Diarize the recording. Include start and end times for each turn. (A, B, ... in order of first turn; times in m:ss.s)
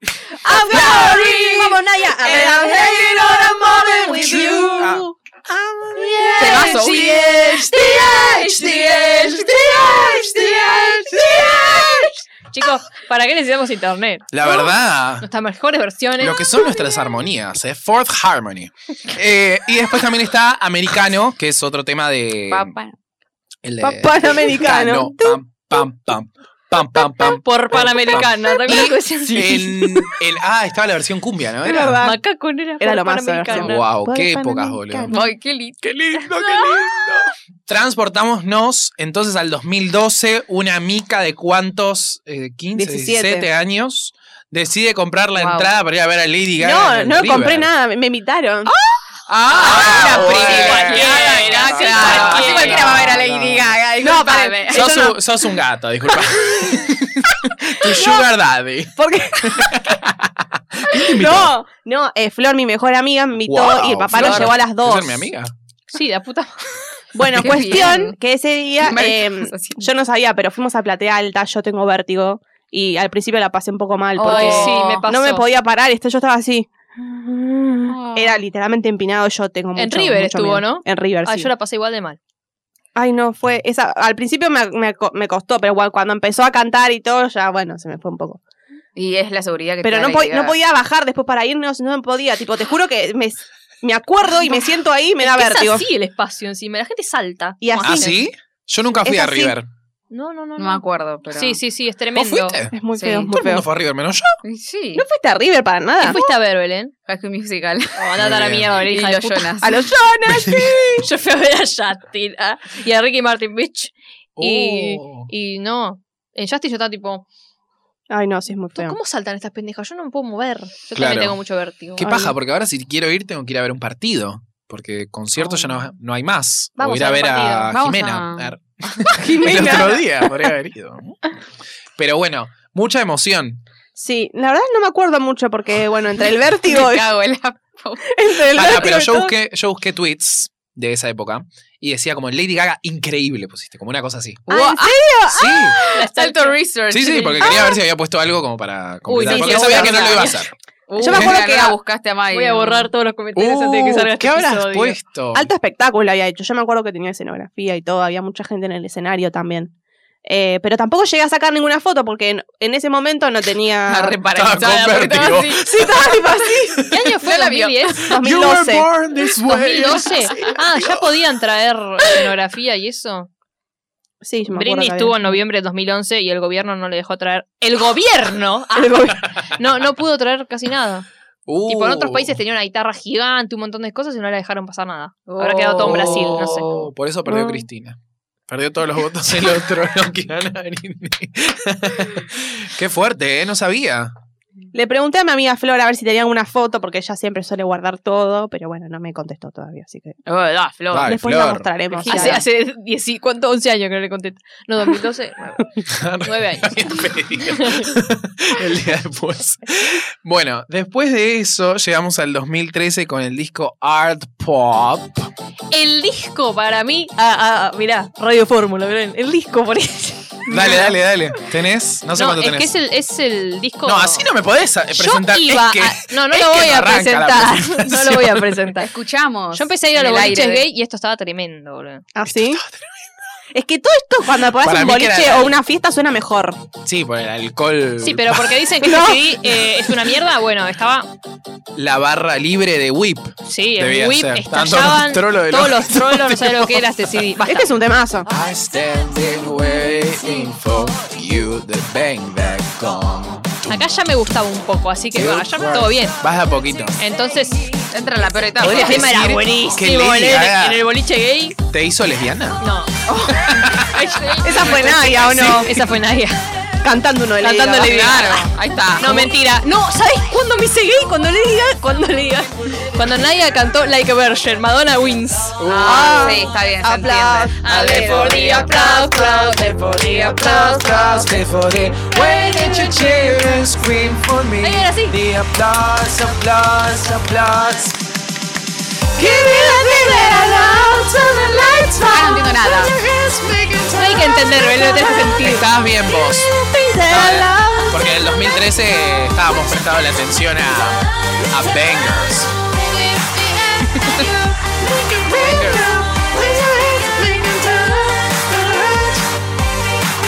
0:00.5-0:05.0 A
0:00.5-0:07.1 B
0:00.5-0:01.7 C
0:04.3-0:05.0 D
0:05.9-0:12.1 A
0:06.4-0:09.7 C
0:10.3-0:11.4 C
0:11.3-0:11.9 D
0:12.5-0:14.5 E
0:14.3-0:15.2 D
0:15.2-0:16.5 E
0:16.2-0:22.7 D
0:22.5-0:22.9 C
0:23.6-0:32.0 D
0:23.8-0:25.4 B
0:27.1-0:30.1 E
0:31.6-0:32.2 B
0:32.0-0:33.8 E
0:32.8-0:35.3 B
0:33.6-0:35.1 D
0:35.1-0:35.8 C
0:35.8-0:47.7 D
0:42.7-0:43.5 B
0:45.4-0:45.7 C
0:46.6-0:48.7 B
0:49.3-0:53.8 D
0:49.5-0:55.0 C
0:49.6-0:53.1 E
0:54.0-0:55.2 B
0:54.7-1:01.5 D
0:57.8-0:58.3 B
0:59.0-0:59.9 B
1:00.9-1:05.3 B
1:03.4-1:05.5 D
1:04.1-1:04.5 C
1:05.9-1:06.6 E
1:07.1-1:21.5 B
1:07.3-1:08.2 C
1:08.8-1:09.9 C
1:14.2-1:15.0 C
1:14.2-1:15.4 E
1:17.9-1:18.4 C
1:19.8-1:22.2 E
1:23.0-1:28.4 B
1:29.0-1:30.5 C
1:29.8-1:35.9 B
1:35.2-1:38.2 E
1:37.6-1:38.2 B
1:37.8-1:39.7 D
1:39.0-1:39.5 B
1:40.1-1:42.6 E
1:40.6-1:41.6 C
1:42.1-1:42.8 D
1:42.7-1:43.6 B
1:42.9-1:43.3 C
1:43.3-1:44.4 D
1:44.4-1:45.0 C
1:44.9-1:46.2 B
1:46.0-1:46.9 E
1:47.0-1:48.3 C
1:48.0-1:49.6 E
1:48.2-1:48.8 D
1:48.8-1:49.8 C
1:49.6-1:51.0 B
1:50.3-1:50.8 D
1:51.0-1:57.2 E
1:54.4-1:55.3 D
1:58.1-1:59.0 B
1:58.7-2:02.3 E
2:00.9-2:01.4 D
2:02.0-2:11.2 D
2:05.4-2:05.7 C
2:06.8-2:07.7 E
2:07.7-2:08.5 C
2:09.1-2:10.5 B
2:12.0-2:13.6 D
2:14.0-2:17.1 B
2:16.6-2:18.8 C
2:18.0-2:19.3 B
2:18.5-2:24.5 D
2:24.5-2:25.0 C
2:24.5-2:25.8 B
2:25.3-2:25.8 D
2:25.8-2:27.7 C
2:25.9-2:26.6 E
2:26.9-2:30.5 D
2:27.4-2:27.7 B
2:29.1-2:30.4 E
2:29.2-2:30.4 B
2:30.9-2:32.9 C
2:31.0-2:31.8 B
2:31.1-2:31.4 D
2:32.3-2:35.0 E
2:33.3-2:35.5 D
2:35.3-2:39.7 B
2:40.2-2:44.2 B
2:43.9-2:46.6 C
2:44.3-2:46.9 D
2:45.8-2:46.6 B
2:46.9-2:48.1 E
2:47.2-2:47.9 C
2:48.0-2:48.9 B
2:48.1-2:51.1 D
2:49.4-2:53.3 E
2:54.2-2:55.2 B
2:54.5-3:01.0 E
3:01.5-3:02.4 D
3:01.7-3:06.7 E
3:05.3-3:06.5 C
3:05.8-3:14.1 D
3:07.2-3:07.6 B
3:14.7-3:20.2 B
3:20.2-3:21.2 C
3:20.9-3:21.7 D
3:21.0-3:22.4 B
3:21.9-3:27.9 E
3:22.0-3:22.4 C
3:25.9-3:35.3 D
3:35.7-3:41.0 E
3:40.5-3:42.7 D
3:42.2-3:44.3 E
3:43.8-3:48.6 D
3:44.9-3:48.9 E
3:48.8-3:50.6 C
3:49.5-3:52.0 E
3:52.1-3:52.6 B
3:52.3-3:53.0 D
3:53.5-3:56.6 B
3:54.6-3:55.6 D
3:56.8-3:58.6 D
3:58.0-4:01.1 E
3:58.8-3:59.4 B
4:01.8-4:06.8 D
4:03.4-4:07.7 E
4:07.4-4:08.3 B
4:08.3-4:13.8 D
4:13.7-4:16.2 E
4:15.1-4:17.0 D
4:17.0-4:17.7 E
4:17.9-4:19.1 C
4:18.6-4:20.8 D
4:18.6-4:21.6 E
4:21.7-4:22.6 D
4:22.6-4:23.0 E
4:23.1-4:23.4 C
4:23.3-4:24.0 D
4:23.9-4:26.4 E
4:24.2-4:25.1 C
4:24.4-4:25.7 B
4:25.2-4:25.9 D
4:26.8-4:28.3 B
4:27.4-4:35.8 E
4:27.8-4:29.2 C
4:35.6-4:36.4 D
4:35.7-4:38.9 C
4:35.8-4:37.5 B
4:37.6-4:39.7 E
4:37.7-4:47.9 A
4:42.9-4:43.4 D
4:44.2-4:45.5 D
4:44.6-4:45.2 E
4:49.2-4:55.4 A
4:49.5-4:51.2 B
4:52.0-4:53.0 C
4:53.9-4:55.7 E
4:55.4-4:56.5 D
4:56.2-4:58.1 B
4:57.0-5:02.5 D
5:01.4-5:09.2 A
5:03.9-5:04.3 D
5:05.3-5:05.9 D